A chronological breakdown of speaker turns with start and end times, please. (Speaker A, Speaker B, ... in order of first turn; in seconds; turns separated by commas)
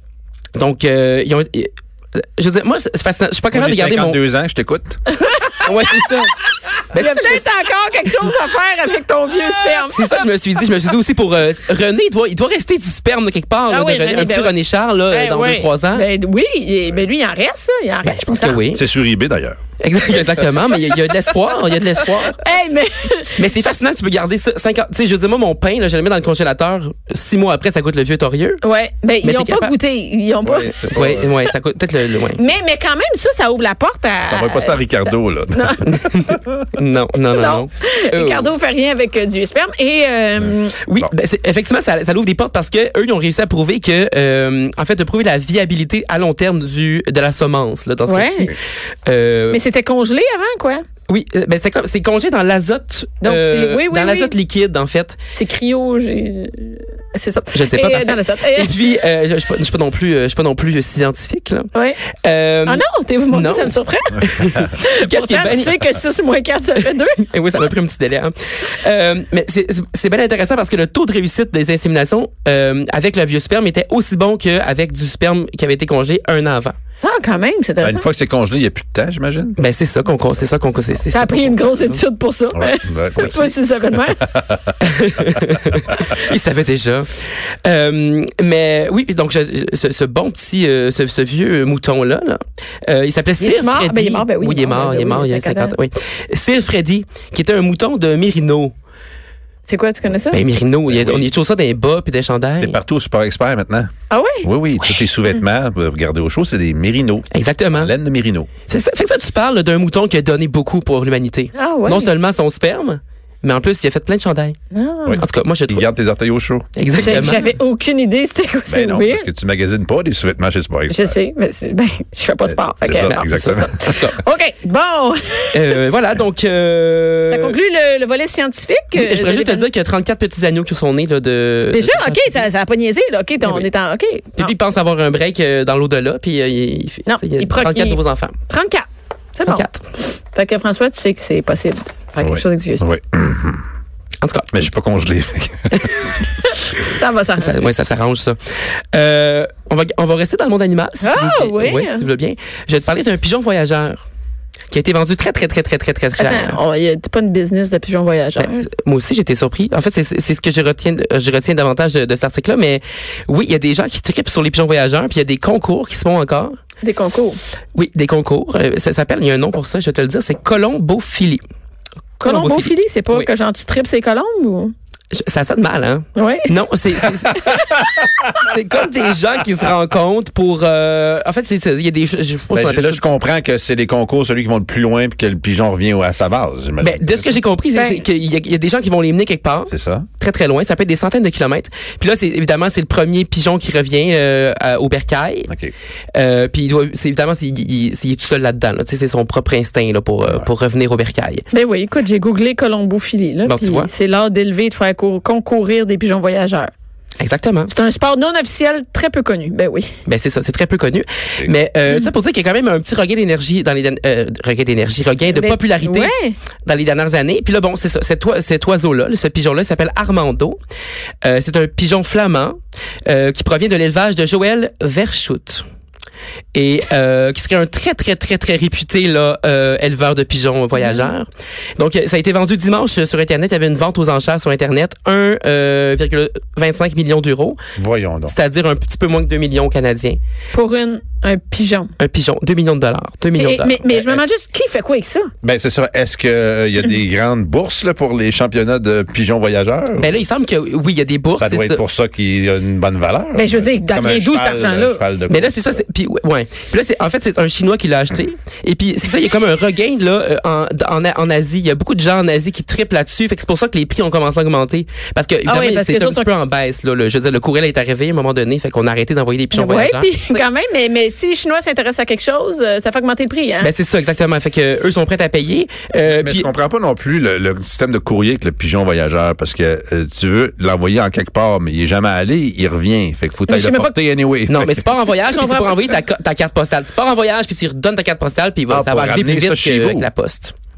Speaker A: 0.6-4.2, Speaker B: 3.5-5.0, Speaker C: 5.1-5.8, Speaker A: 5.6-7.5, Speaker C: 6.9-10.0, Speaker A: 9.9-16.0, Speaker C: 13.7-14.5, Speaker C: 15.1-18.6, Speaker A: 18.0-18.8, Speaker B: 18.7-19.6, Speaker A: 19.8-22.4, Speaker C: 22.3-23.4, Speaker A: 23.4-28.6, Speaker C: 28.6-30.7, Speaker A: 29.2-29.7, Speaker B: 30.4-31.3, Speaker A: 30.9-32.4, Speaker C: 32.3-35.9, Speaker B: 34.3-36.5, Speaker A: 35.9-38.5, Speaker C: 37.3-40.8, Speaker A: 40.9-49.6, Speaker C: 48.1-48.5, Speaker C: 49.5-50.8, Speaker A: 51.1-55.2, Speaker C: 53.2-54.3, Speaker C: 55.3-58.8, Speaker A: 57.5-61.7, Speaker C: 61.7-62.0, Speaker A: 62.2-65.8, Speaker C: 62.6-67.2, Speaker A: 67.2-76.7, Speaker C: 77.0-78.1, Speaker B: 77.8-79.6, Speaker A: 79.6-82.0, Speaker C: 81.1-84.3, Speaker B: 82.5-83.4, Speaker A: 83.2-83.5, Speaker B: 84.2-84.7, Speaker A: 84.8-87.1, Speaker A: 87.6-98.7, Speaker C: 93.4-95.7, Speaker C: 99.7-100.4, Speaker A: 100.3-102.8, Speaker B: 100.9-101.3, Speaker B: 102.6-103.9, Speaker C: 104.1-104.5, Speaker B: 104.4-108.5, Speaker A: 107.3-107.9, Speaker A: 108.7-114.6, Speaker C: 111.5-112.1, Speaker C: 114.7-115.2, Speaker B: 115.0-117.4, Speaker A: 115.1-115.9, Speaker A: 116.8-117.4, Speaker C: 116.9-119.3, Speaker B: 118.7-121.2, Speaker C: 120.9-125.7, Speaker B: 122.5-124.0, Speaker A: 123.0-124.2, Speaker A: 125.5-127.5, Speaker C: 127.3-129.7, Speaker A: 128.9-132.4, Speaker C: 131.7-134.5, Speaker A: 133.4-133.7, Speaker A: 134.4-138.4, Speaker C: 137.1-142.8, Speaker A: 139.5-139.8, Speaker B: 142.2-143.6, Speaker A: 144.2-144.5, Speaker B: 144.5-146.1, Speaker C: 146.4-147.6, Speaker A: 147.4-148.4, Speaker A: 148.9-154.0, Speaker C: 151.0-152.1, Speaker A: 154.7-156.6, Speaker C: 156.2-158.7, Speaker A: 158.4-166.6, Speaker C: 166.8-167.4, Speaker A: 167.7-171.4, Speaker C: 172.2-174.7, Speaker A: 172.2-173.3, Speaker A: 175.1-177.7, Speaker C: 176.1-176.5, Speaker A: 178.2-183.0, Speaker B: 182.5-187.4, Speaker A: 186.8-195.5, Speaker C: 187.7-188.0, Speaker B: 189.7-190.1, Speaker B: 195.5-195.7, Speaker A: 196.1-201.4, Speaker C: 201.5-206.7, Speaker A: 203.4-203.9, Speaker A: 207.2-207.7, Speaker C: 207.7-209.9, Speaker A: 210.1-216.1, Speaker C: 215.3-216.3, Speaker A: 216.6-220.6, Speaker A: 221.2-225.6, Speaker A: 226.5-237.6, Speaker C: 230.8-231.1, Speaker B: 237.8-238.3, Speaker A: 238.2-240.2, Speaker C: 240.5-241.9, Speaker A: 242.0-244.2, Speaker C: 243.3-245.3, Speaker B: 245.4-250.2, Speaker A: 250.0-251.8, Speaker B: 251.3-255.6, Speaker C: 253.3-255.0, Speaker A: 255.3-270.4, Speaker C: 265.4-266.3, Speaker C: 269.5-273.7, Speaker A: 273.6-276.5, Speaker B: 276.1-284.8, Speaker C: 283.5-283.9, Speaker A: 284.5-290.5, Speaker C: 285.2-285.9, Speaker B: 288.7-290.1